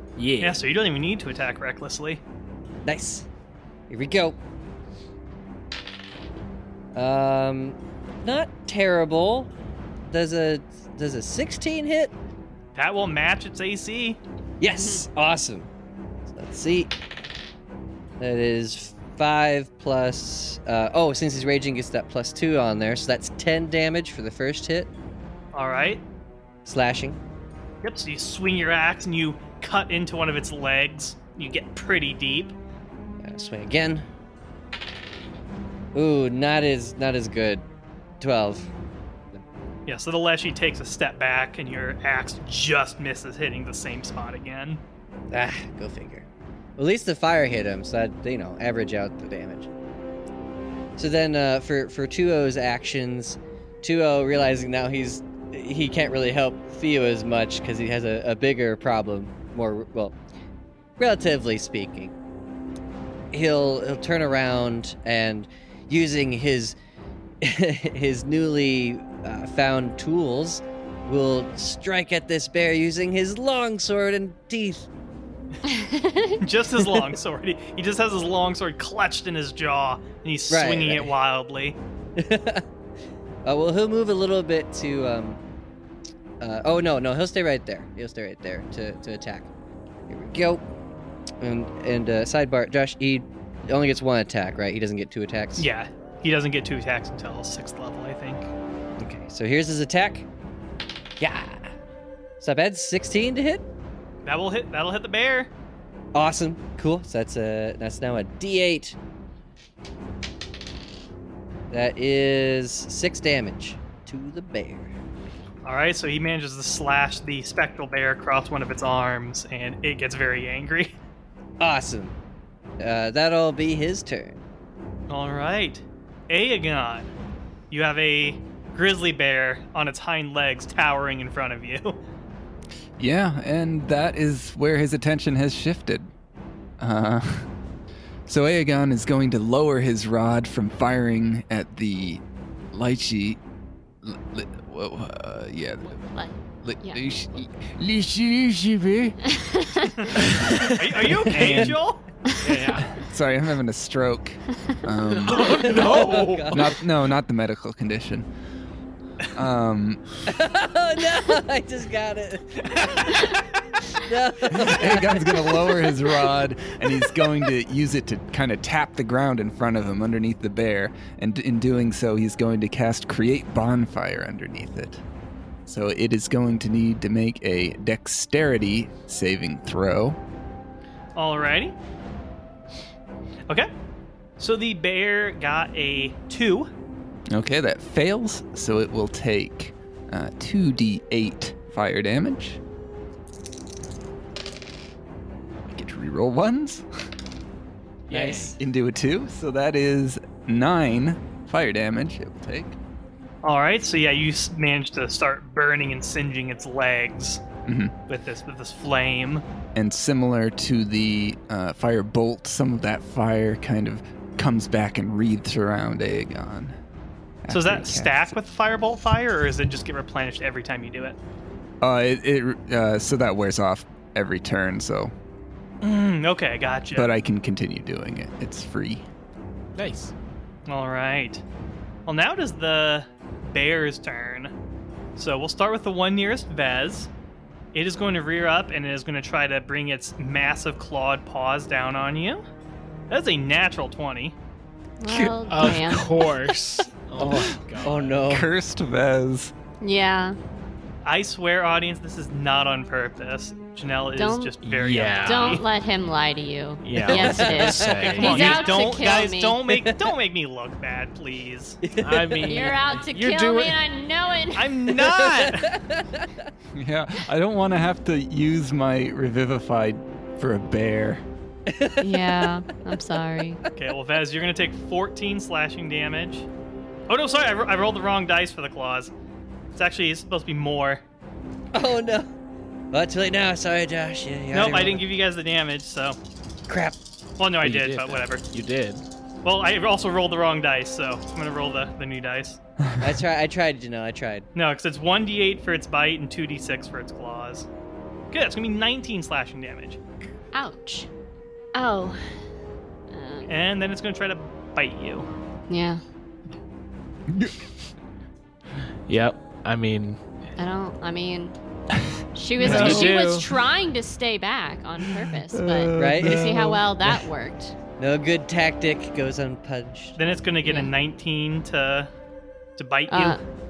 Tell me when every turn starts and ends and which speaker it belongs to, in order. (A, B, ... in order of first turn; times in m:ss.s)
0:00.2-0:00.6 A
0:00.4-0:02.2 B
0:02.8-0:03.2 C
0:03.9-0:04.4 C
0:06.9-0:09.5 C
0:10.0-0:12.1 C
0:12.7-0:14.2 B
0:14.6-0:15.7 C
0:14.8-0:15.0 D
0:16.3-0:16.9 C
0:18.2-0:24.9 C
0:25.5-0:26.0 B
0:26.6-0:27.2 C
0:27.8-0:32.5 B
0:33.2-0:34.0 C
0:35.9-0:37.6 C
0:38.2-0:38.7 C
0:39.9-0:44.8 B
0:45.3-0:46.2 C
0:46.8-0:49.7 C
0:51.0-1:00.2 C
1:01.0-1:02.1 C
1:03.3-1:06.8 C
1:07.4-1:14.9 C
1:15.6-1:16.4 D
1:16.4-1:21.8 B
1:20.5-1:21.1 C
1:22.2-1:22.6 C
1:23.4-1:25.4 C
1:26.4-1:29.5 C
1:30.1-1:30.6 C
1:31.4-1:35.7 C
1:35.6-1:38.5 B
1:39.0-1:40.3 C
1:41.2-1:41.7 C
1:42.4-1:43.6 C
1:44.2-1:45.5 B
1:46.1-1:49.0 C
1:51.7-1:54.9 C
1:55.6-2:01.0 B
2:01.6-2:02.1 C
2:02.8-2:04.4 C
2:05.1-2:07.1 B
2:07.7-2:12.0 B
2:13.0-2:16.1 E
2:16.8-2:17.5 E
2:18.3-2:22.2 E
2:22.7-2:23.4 E
2:24.0-2:26.1 E
2:26.1-2:27.0 D
2:26.6-2:29.3 E
2:29.3-2:29.9 D
2:30.0-2:32.0 B
2:31.3-2:31.8 E
2:31.4-2:31.7 A
2:32.4-2:32.8 A
2:32.8-2:35.7 E
2:35.1-2:36.8 A
2:35.4-2:36.7 C
2:36.5-2:38.3 E
2:39.3-2:40.0 E
2:40.3-2:43.3 C
2:43.9-2:45.6 C
2:44.5-2:55.0 E
2:55.6-3:00.2 E
3:01.1-3:01.7 B
3:04.4-3:06.7 B
3:07.3-3:12.6 E
3:15.7-3:16.8 E
3:18.1-3:18.6 A
3:18.1-3:18.5 C
3:18.5-3:22.8 E
3:23.4-3:27.4 B
3:27.6-3:27.9 E
3:28.1-3:29.4 B
3:29.7-3:36.8 E
3:37.4-3:38.4 E
3:37.5-3:41.2 B
3:41.8-3:45.1 E
3:45.8-3:47.1 B
3:46.9-3:49.0 E
3:49.8-3:50.1 A
3:50.7-3:51.4 B
3:52.0-3:54.5 B
3:55.2-3:57.1 B
3:57.7-4:02.4 B
4:03.1-4:04.4 B
4:05.0-4:06.4 D
4:05.0-4:05.3 E
4:05.5-4:08.2 A
4:07.2-4:08.5 C
4:08.2-4:09.5 E
4:09.8-4:10.4 D
4:11.0-4:15.6 B
4:14.2-4:14.5 D
4:14.6-4:15.6 A
4:15.2-4:19.6 D
4:16.8-4:18.8 A
4:17.1-4:18.4 C
4:18.0-4:21.8 B
4:19.7-4:20.1 C
4:21.8-4:22.7 C
4:22.0-4:23.8 A
4:22.4-4:24.8 D
4:24.5-4:25.7 B
4:25.0-4:26.3 C
4:26.8-4:31.2 E
4:31.7-4:32.5 C
4:32.0-4:33.6 D
4:33.8-4:36.5 B
4:37.1-4:39.1 B
4:39.7-4:41.0 B
4:41.7-4:42.3 C
4:42.9-4:45.0 C
4:44.5-4:46.2 B
4:46.7-4:47.0 C
4:47.4-4:48.4 B
4:47.6-4:49.0 A
4:49.4-4:52.6 B
4:53.0-4:54.5 C
4:54.5-4:57.7 B
4:58.3-5:00.0 B
5:00.5-5:01.1 D
5:01.7-5:02.2 D
5:03.1-5:03.5 D
5:03.5-5:05.3 B
5:05.7-5:06.0 D
5:07.3-5:07.6 E
5:09.1-5:10.2 A
5:10.6-5:11.5 D
5:12.3-5:17.7 D
5:12.6-5:13.5 A
5:12.6-5:13.2 B
5:12.6-5:13.0 E
5:15.1-5:17.2 E
5:16.0-5:16.5 C
5:18.0-5:20.2 C
5:20.2-5:22.1 B
5:20.6-5:20.9 D
5:22.8-5:23.4 B
5:23.1-5:23.4 D